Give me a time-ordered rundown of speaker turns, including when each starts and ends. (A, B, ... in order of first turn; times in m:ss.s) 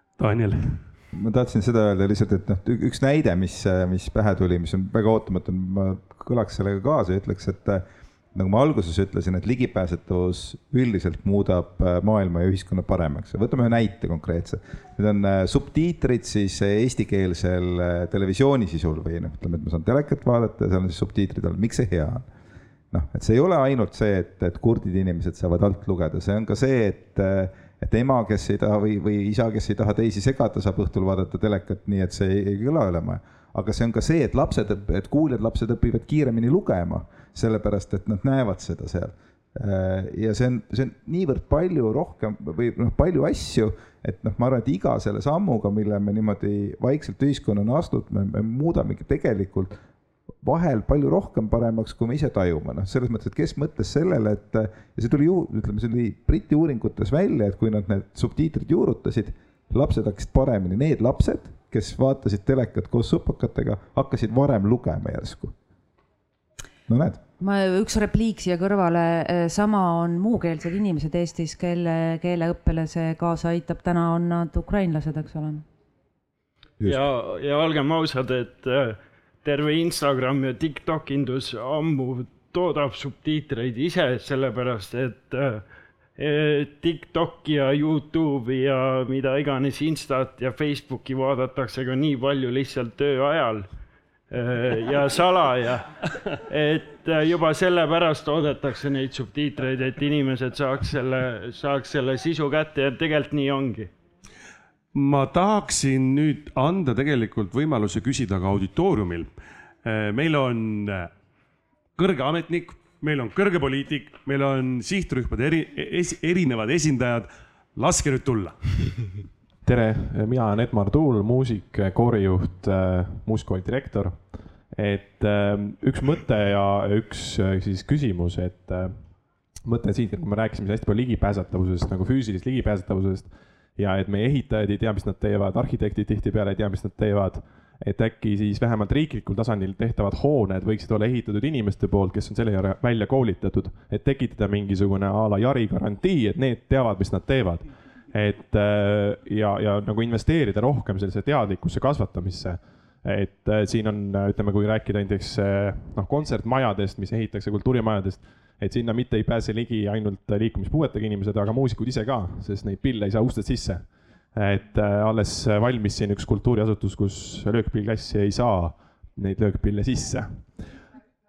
0:00.2-0:00.8 A
0:01.1-0:22.3 B
0:22.9-0:49.7 B
0:50.4-1:05.5 B
1:06.9-1:07.2 B
1:07.4-1:15.6 C
1:16.8-1:17.0 B
1:16.8-1:25.6 D
1:26.2-1:33.7 D
1:34.3-1:43.9 D
1:44.9-1:49.3 A
1:49.8-1:51.1 A
1:52.0-1:58.9 A
1:59.6-2:09.1 E
2:09.6-2:50.8 E